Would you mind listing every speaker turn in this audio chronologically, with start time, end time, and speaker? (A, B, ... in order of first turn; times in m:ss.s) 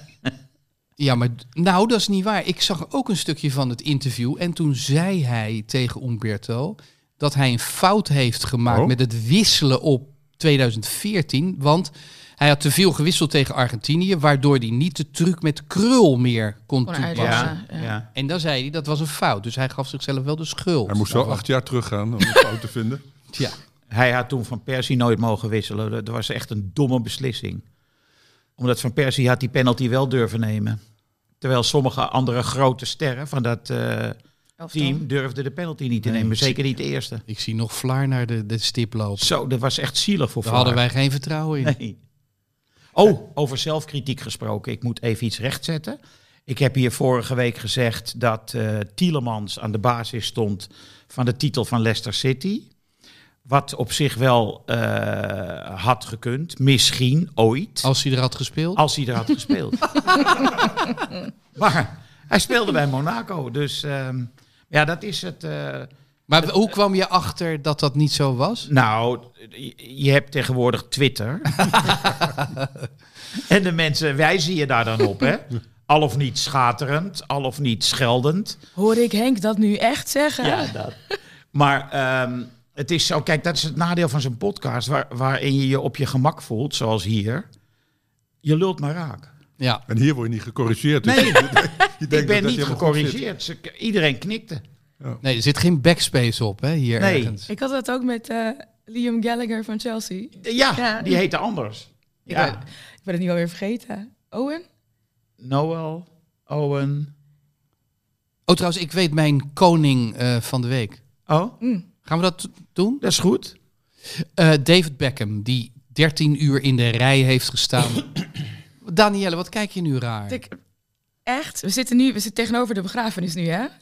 0:01.0-0:17.5 A
0:08.7-0:08.9 B
0:16.9-0:17.9 C
0:17.2-0:18.1 D
0:18.1-0:21.4 A
0:20.9-0:23.0 B
0:23.9-0:27.6 D
0:28.6-0:30.8 D
0:31.4-0:34.2 D
0:34.6-0:35.0 C
0:34.7-0:37.2 D
0:36.0-0:36.6 A
0:37.3-0:39.3 A
0:39.2-0:40.8 D
0:40.4-0:41.8 A
0:41.6-0:42.0 D
0:43.0-0:52.7 D
0:53.5-0:57.9 D
0:57.8-0:58.8 A
0:58.8-1:00.7 D
1:01.6-1:05.9 D
1:06.3-1:08.7 A
1:08.7-1:12.2 D
1:11.7-1:12.6 A
1:13.4-1:18.6 D
1:18.8-1:20.7 C
1:20.4-1:21.0 D
1:21.5-1:27.5 D
1:28.4-1:29.3 D
1:29.9-1:33.2 B
1:31.0-1:34.6 D
1:35.2-1:37.5 A
1:37.0-1:37.4 D
1:37.5-1:41.2 C
1:40.4-1:42.6 D
1:42.3-1:44.6 C
1:45.4-1:47.1 D
1:48.5-1:51.0 A
1:51.3-1:51.6 D
1:52.0-1:53.0 A
1:53.0-1:53.6 D
1:54.1-1:58.3 A
1:58.8-2:00.4 A
2:00.3-2:00.6 C
2:01.3-2:03.7 C